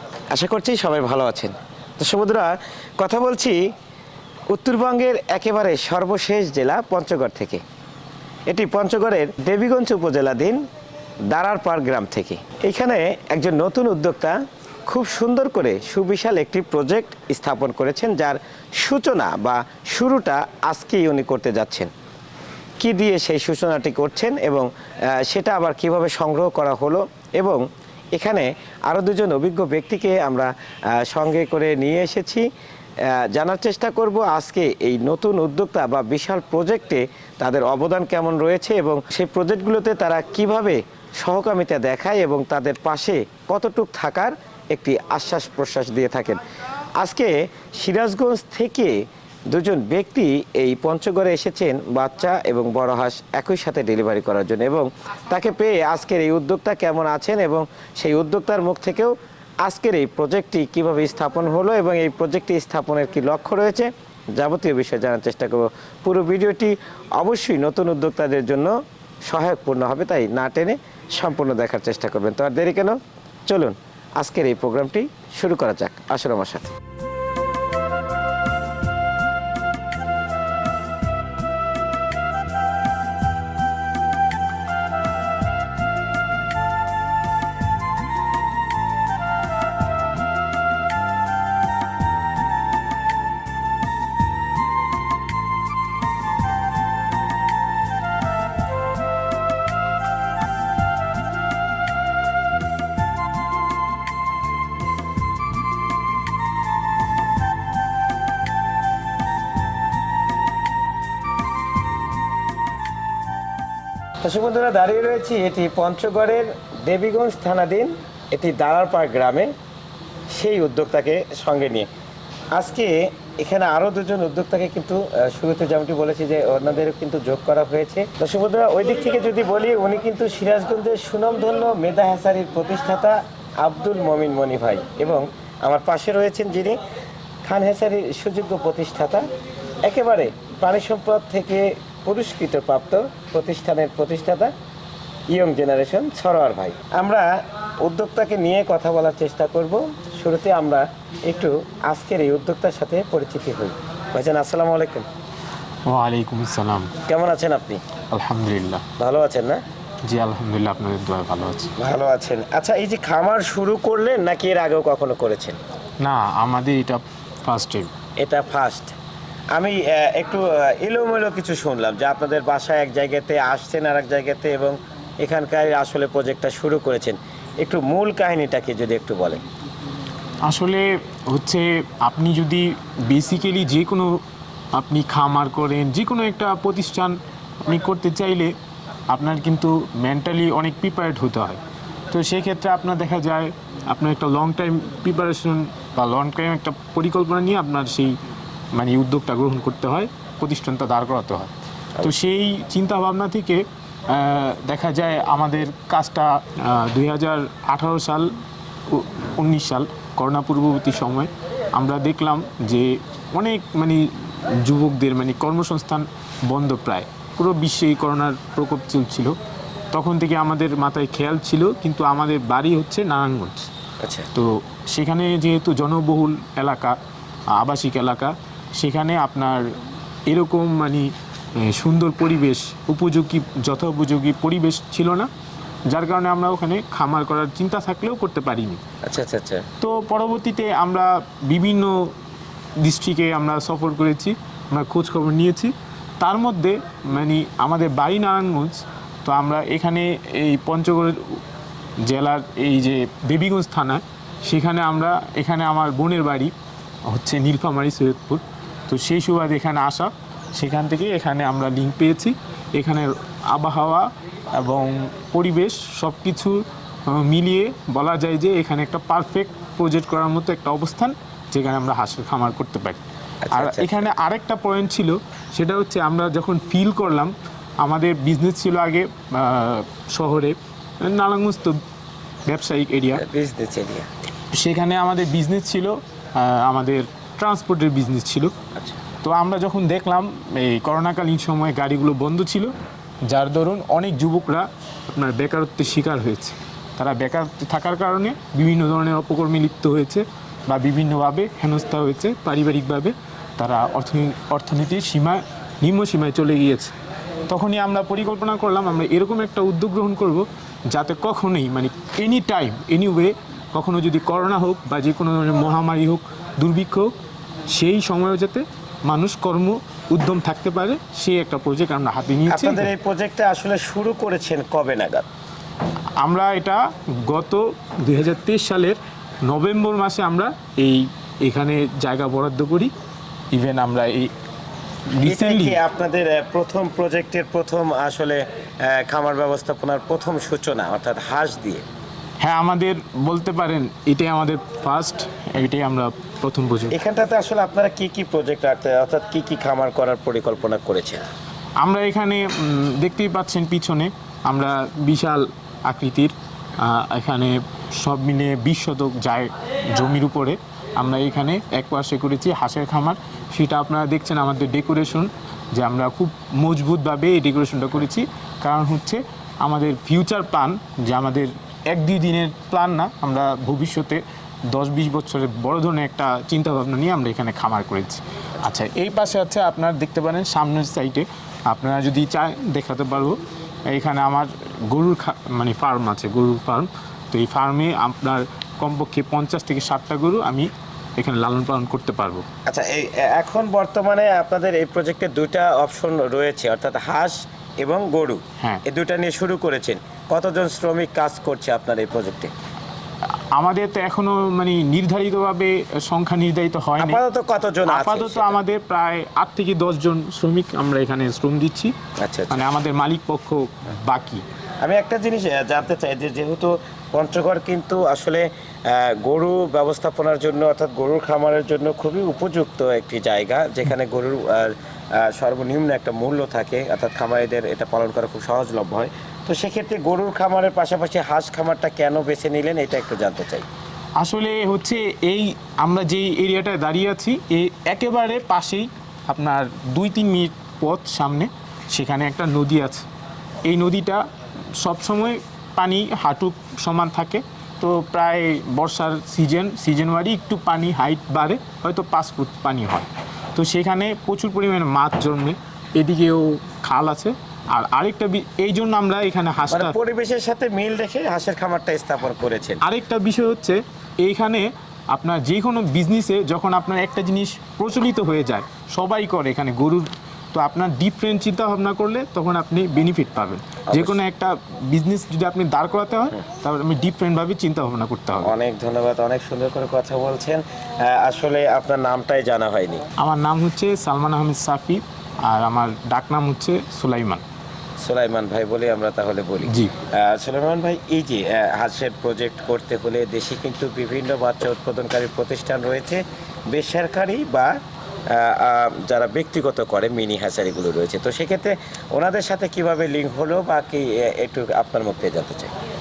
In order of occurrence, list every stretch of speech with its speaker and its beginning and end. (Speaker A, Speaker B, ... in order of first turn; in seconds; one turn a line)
Speaker A: 0.3-3.6
Speaker A: 4.5-7.6
Speaker A: 8.5-10.6
Speaker A: 11.3-14.4
Speaker A: 14.9-21.9
Speaker A: 22.8-24.6
Speaker A: 25.2-27.6
Speaker A: 28.1-30.5
Speaker A: 31.0-32.4
Speaker A: 33.3-46.4
Speaker A: 47.0-48.9
Speaker A: 49.5-59.1
Speaker A: 59.6-68.7
Speaker A: 69.3-76.7
Speaker A: 114.2-119.5
Speaker A: 120.3-121.9
Speaker A: 122.5-136.8
Speaker A: 137.4-139.3
Speaker A: 139.8-144.5
Speaker A: 145.3-147.3
Speaker A: 147.8-155.0
Speaker B: 155.8-156.9
Speaker A: 157.1-157.8
Speaker B: 158.1-158.8
Speaker A: 159.0-159.6
Speaker B: 160.0-161.7
Speaker A: 161.8-165.6
Speaker B: 166.0-167.9
Speaker A: 168.2-168.9
Speaker A: 169.5-179.4
Speaker B: 180.4-184.2
Speaker B: 184.7-188.5
Speaker B: 189.1-191.6
Speaker B: 192.1-198.2
Speaker B: 198.7-201.5
Speaker B: 202.0-208.3
Speaker B: 208.9-219.3
Speaker B: 219.9-223.7
Speaker B: 224.3-227.0
Speaker B: 227.5-229.7
Speaker B: 230.2-235.3
Speaker B: 235.9-238.8
Speaker A: 239.1-239.6
Speaker B: 239.8-242.1
Speaker B: 242.8-251.4
Speaker B: 252.0-256.5
Speaker B: 257.1-281.8
Speaker A: 273.5-273.9
Speaker B: 282.4-283.2
Speaker A: 283.1-284.1
Speaker B: 284.5-288.5
Speaker B: 289.2-292.7
Speaker B: 293.2-306.9
Speaker B: 307.5-317.1
Speaker B: 317.7-322.9
Speaker A: 322.5-325.2
Speaker B: 326.2-332.9
Speaker B: 333.5-334.3
Speaker B: 335.1-335.8
Speaker A: 335.2-341.8
Speaker B: 342.4-346.9
Speaker A: 346.9-351.2
Speaker B: 351.8-392.4
Speaker A: 392.7-402.5
Speaker B: 403.5-407.2
Speaker A: 407.0-408.6
Speaker B: 407.9-411.9
Speaker A: 412.2-412.7
Speaker B: 412.5-414.4
Speaker A: 414.8-433.6
Speaker B: 434.2-443.0
Speaker B: 443.6-444.2
Speaker B: 444.8-459.9
Speaker A: 459.7-462.8
Speaker B: 462.8-478.5
Speaker A: 473.9-474.2
Speaker A: 478.4-483.0
Speaker B: 483.2-487.4
Speaker A: 488.0-497.7
Speaker B: 489.7-489.9
Speaker A: 498.3-505.7